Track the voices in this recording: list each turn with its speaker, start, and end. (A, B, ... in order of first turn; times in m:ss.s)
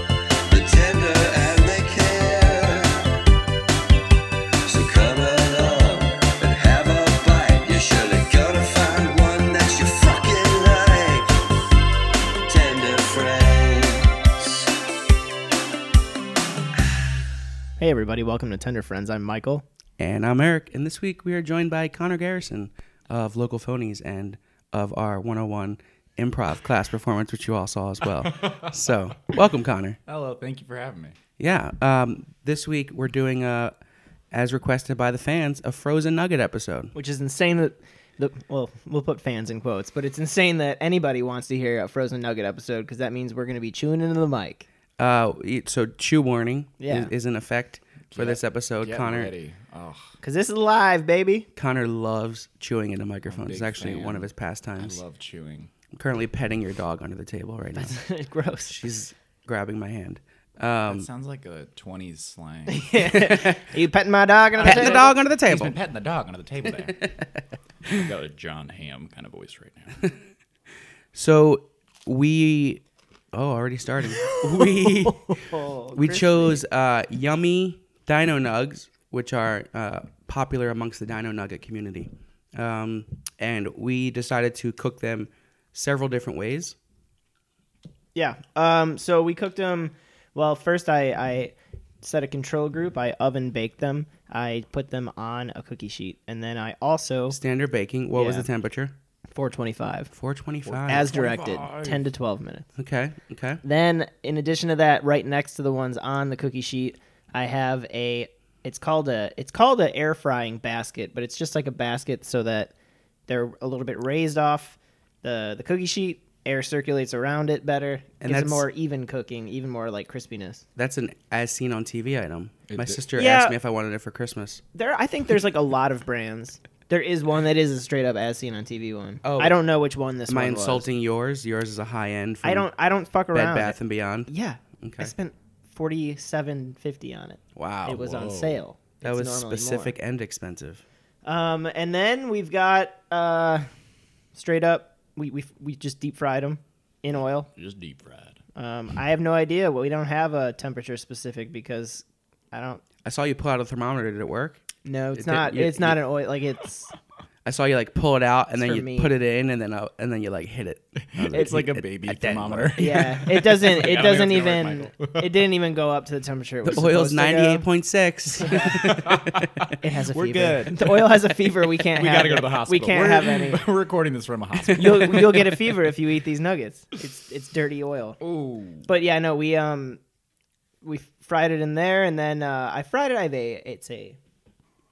0:00.5-0:03.2 A
0:04.6-0:11.3 A
0:12.5-0:14.7 A
0:17.8-0:19.6 B
0:20.0-0:30.0 C
0:28.2-0:28.7 D
0:30.0-0:31.2 D
0:31.4-0:33.7 C
0:34.3-0:36.9 C
0:36.9-0:44.7 B
0:45.0-0:49.3 C
0:46.8-0:47.1 B
0:48.1-0:50.1 D
0:50.2-0:51.5 B
0:51.6-0:55.0 C
0:53.3-0:55.7 D
0:55.9-0:58.1 C
0:57.8-0:58.8 B
0:58.7-1:01.1 C
1:00.8-1:02.9 D
1:02.7-1:05.1 B
1:03.2-1:03.6 C
1:04.6-1:05.8 C
1:04.6-1:07.1 D
1:06.9-1:07.2 C
1:07.9-1:10.0 D
1:11.1-1:12.8 C
1:13.3-1:26.7 C
1:14.2-1:16.6 B
1:28.1-1:37.4 B
1:37.3-1:38.9 C
1:38.1-1:38.5 B
1:39.3-1:40.1 B
1:40.1-1:41.1 C
1:40.6-1:42.1 D
1:40.9-1:42.6 B
1:42.8-1:43.6 C
1:43.6-1:52.7 B
1:53.3-2:00.6 B
1:58.2-1:58.7 C
2:00.8-2:04.6 C
2:02.7-2:03.0 D
2:03.1-2:03.6 B
2:04.7-2:10.8 B
2:09.2-2:09.6 C
2:10.3-2:12.7 C
2:12.4-2:19.9 B
2:13.3-2:15.1 C
2:17.6-2:18.0 C
2:17.9-2:18.6 D
2:19.0-2:20.8 C
2:21.2-2:23.7 B
2:24.3-2:27.5 B
2:27.5-2:28.4 D
2:28.5-2:32.8 B
2:33.0-2:36.0 C
2:34.8-2:36.9 B
2:37.4-2:43.1 C
2:38.6-2:39.1 B
2:41.1-2:45.4 D
2:42.8-2:47.6 B
2:46.6-2:49.6 C
2:48.4-2:49.0 B
2:48.6-2:55.7 D
2:49.8-2:53.7 B
2:54.7-2:58.2 B
2:58.2-2:58.9 D
2:58.8-3:00.0 B
3:00.8-3:04.2 B